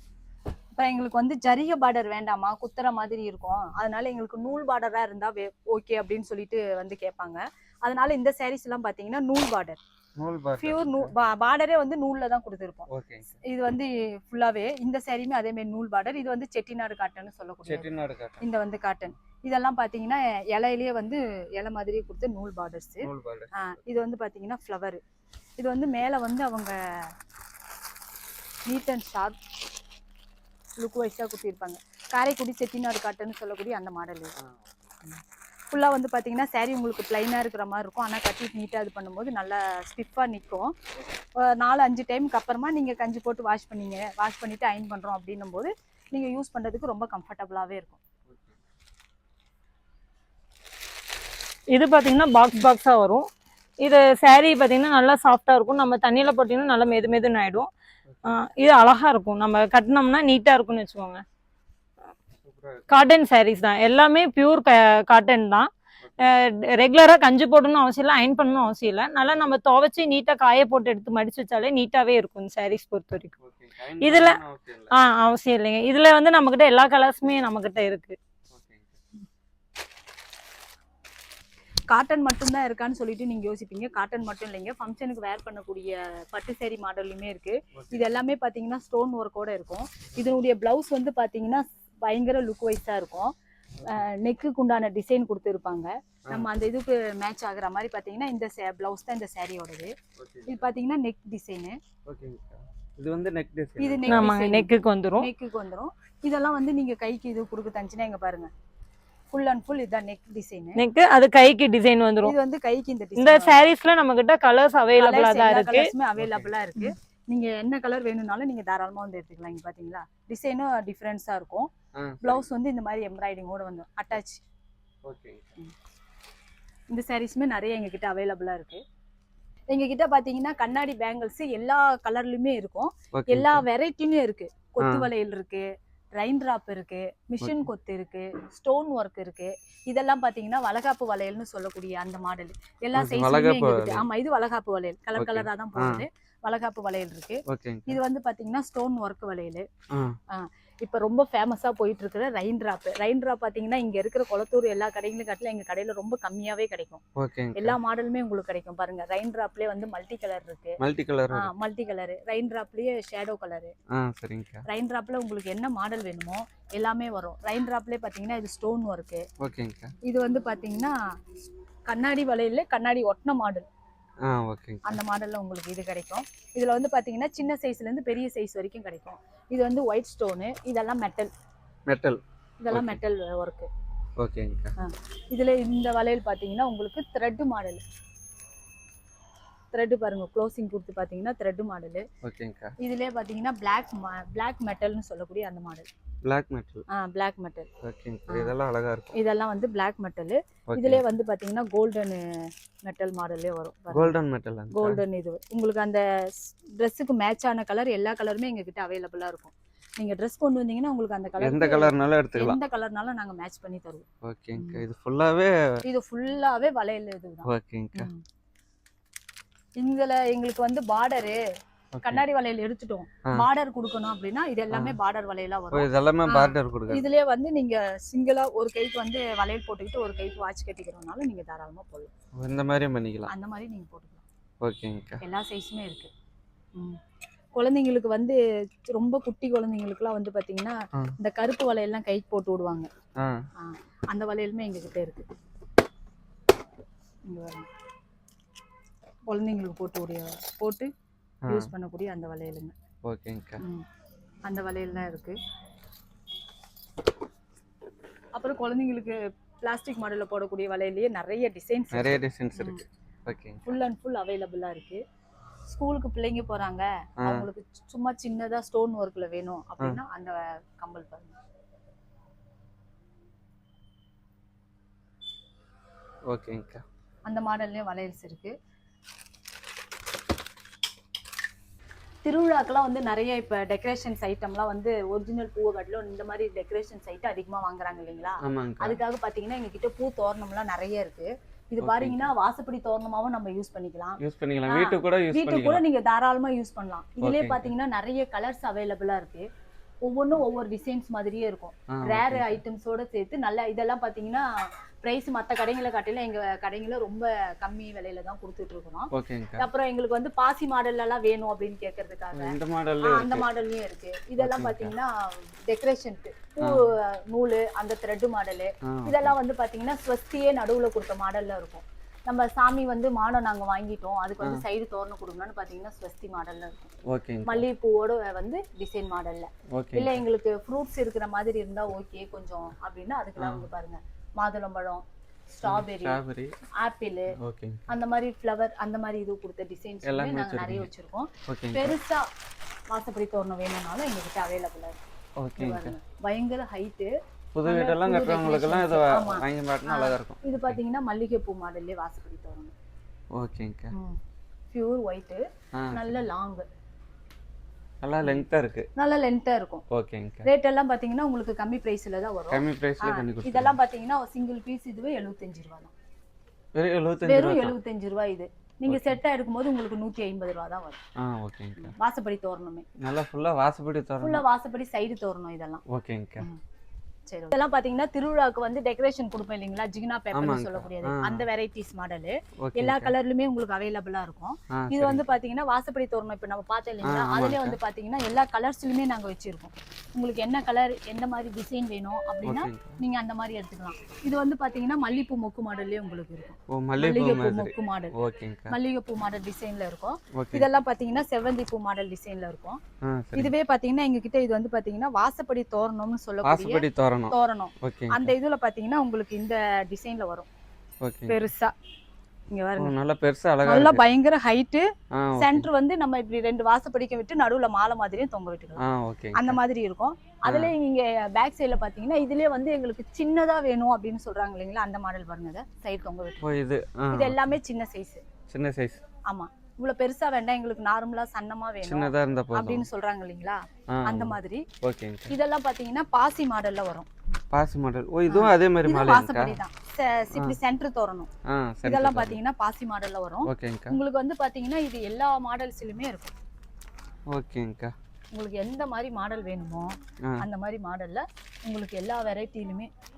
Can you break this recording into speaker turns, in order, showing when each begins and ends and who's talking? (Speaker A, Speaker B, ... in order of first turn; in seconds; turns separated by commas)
Speaker A: 0.8-9.8, Speaker B: 10.2-11.1, Speaker A: 10.6-12.9, Speaker B: 12.9-13.4, Speaker A: 13.4-17.9, Speaker B: 17.6-18.4, Speaker A: 18.4-25.0, Speaker B: 23.0-23.5, Speaker A: 25.6-27.1, Speaker A: 28.7-29.4, Speaker A: 30.8-34.3, Speaker B: 34.4-34.9, Speaker A: 35.7-40.8, Speaker A: 41.4-48.0, Speaker B: 48.3-48.5, Speaker C: 51.7-53.3, Speaker C: 53.8-57.7, Speaker C: 58.2-61.2, Speaker B: 62.4-62.9, Speaker C: 62.9-65.7, Speaker B: 66.0-66.3, Speaker C: 66.2-73.3, Speaker B: 73.4-74.9, Speaker C: 74.0-74.4, Speaker C: 74.9-78.2, Speaker B: 78.5-79.0, Speaker A: 81.9-93.3, Speaker B: 87.7-88.1, Speaker A: 93.8-99.9, Speaker B: 100.2-100.6, Speaker A: 100.5-101.8, Speaker B: 102.0-104.3, Speaker A: 103.8-104.7, Speaker C: 104.1-105.3, Speaker A: 105.2-108.5, Speaker A: 109.3-110.8, Speaker C: 110.8-112.3, Speaker A: 112.2-113.6, Speaker C: 113.2-115.9, Speaker A: 115.0-121.7, Speaker B: 116.2-116.5, Speaker B: 121.9-122.5, Speaker A: 122.2-124.4, Speaker B: 125.0-125.5, Speaker A: 126.9-128.8, Speaker A: 129.7-149.7, Speaker B: 133.1-133.7, Speaker B: 134.8-135.1, Speaker B: 137.4-137.7, Speaker B: 142.9-144.1, Speaker B: 145.2-146.1, Speaker B: 147.5-148.0, Speaker B: 149.9-150.2, Speaker A: 150.3-157.0, Speaker B: 157.2-157.8, Speaker A: 157.6-160.8, Speaker B: 160.8-161.5, Speaker A: 161.3-163.7, Speaker B: 163.9-164.6, Speaker A: 164.7-169.2, Speaker B: 169.4-169.9, Speaker A: 170.0-173.7, Speaker B: 174.2-175.0, Speaker A: 174.8-181.3, Speaker B: 181.9-183.0, Speaker A: 182.6-183.7, Speaker B: 184.2-184.7, Speaker A: 184.8-187.8, Speaker A: 189.7-192.1, Speaker B: 192.2-192.7, Speaker A: 192.8-195.9, Speaker B: 196.2-196.8, Speaker A: 196.9-197.7, Speaker B: 197.8-199.2, Speaker A: 198.3-198.5, Speaker A: 199.1-204.1, Speaker B: 200.7-201.0, Speaker B: 203.9-205.0, Speaker A: 204.7-214.8, Speaker B: 211.4-212.6, Speaker B: 214.2-215.6, Speaker A: 215.8-218.2, Speaker B: 217.4-218.1, Speaker A: 219.8-221.4, Speaker B: 221.9-222.2, Speaker A: 222.0-232.1, Speaker B: 224.7-225.0, Speaker B: 225.7-227.0, Speaker B: 232.3-233.3, Speaker A: 233.3-234.2, Speaker B: 234.6-235.2, Speaker A: 235.2-236.1, Speaker A: 236.7-237.0, Speaker A: 237.5-242.9, Speaker A: 243.6-245.3, Speaker A: 247.2-247.7, Speaker A: 249.3-250.9, Speaker B: 251.4-251.7, Speaker A: 251.5-252.7, Speaker B: 253.0-253.6, Speaker A: 254.4-255.4, Speaker A: 258.3-262.8, Speaker B: 261.9-263.8, Speaker A: 263.6-265.0, Speaker A: 265.7-271.4, Speaker B: 267.2-267.5, Speaker B: 276.3-276.8, Speaker A: 277.2-278.5, Speaker A: 282.2-299.5, Speaker B: 288.4-289.0, Speaker B: 291.8-292.3, Speaker B: 294.2-295.8, Speaker B: 297.2-297.7, Speaker A: 300.0-326.9, Speaker B: 301.9-302.6, Speaker B: 309.1-309.7, Speaker B: 312.3-313.4, Speaker B: 314.4-314.9, Speaker B: 318.8-319.4, Speaker B: 327.1-327.7, Speaker A: 327.4-336.2, Speaker B: 329.7-330.2, Speaker B: 333.4-333.6, Speaker B: 335.6-336.5, Speaker A: 336.8-337.4, Speaker B: 337.3-337.9, Speaker A: 337.9-342.3, Speaker B: 340.0-340.9, Speaker B: 341.5-341.9, Speaker A: 342.9-345.0, Speaker B: 345.4-345.9, Speaker A: 345.6-347.1, Speaker B: 347.5-350.8, Speaker A: 347.6-352.7, Speaker B: 353.3-353.9, Speaker A: 353.9-354.2, Speaker A: 354.7-356.6, Speaker B: 355.8-356.2, Speaker B: 358.0-358.9, Speaker A: 359.0-359.8, Speaker B: 359.9-360.5, Speaker A: 360.4-365.9, Speaker B: 362.5-363.8, Speaker B: 366.7-367.8, Speaker A: 367.2-371.0, Speaker B: 368.9-369.2, Speaker B: 371.2-371.9, Speaker A: 371.8-372.9, Speaker B: 373.0-374.4, Speaker A: 374.2-375.8, Speaker B: 375.9-376.5, Speaker A: 377.3-398.1, Speaker B: 380.3-381.4, Speaker B: 382.6-383.1, Speaker B: 384.7-385.2, Speaker B: 387.0-387.8, Speaker B: 392.4-393.0, Speaker B: 396.7-398.8, Speaker A: 398.7-402.8, Speaker B: 400.3-400.6, Speaker B: 403.0-403.5, Speaker A: 403.4-410.5, Speaker B: 406.4-408.3, Speaker B: 411.0-411.4, Speaker A: 411.3-411.7, Speaker A: 412.5-412.9, Speaker B: 412.8-414.0, Speaker A: 413.6-414.9, Speaker B: 415.1-415.7, Speaker A: 415.4-418.8, Speaker B: 418.8-419.6, Speaker A: 419.3-426.5, Speaker B: 420.4-420.7, Speaker B: 426.4-427.4, Speaker A: 427.1-428.2, Speaker B: 428.5-429.0, Speaker A: 429.3-434.6, Speaker B: 431.8-432.9, Speaker B: 433.9-435.4, Speaker A: 435.3-437.1, Speaker B: 437.5-439.6, Speaker A: 438.3-441.3, Speaker B: 441.4-442.4, Speaker A: 441.8-446.3, Speaker B: 443.4-444.0, Speaker B: 447.3-447.9, Speaker A: 448.3-452.9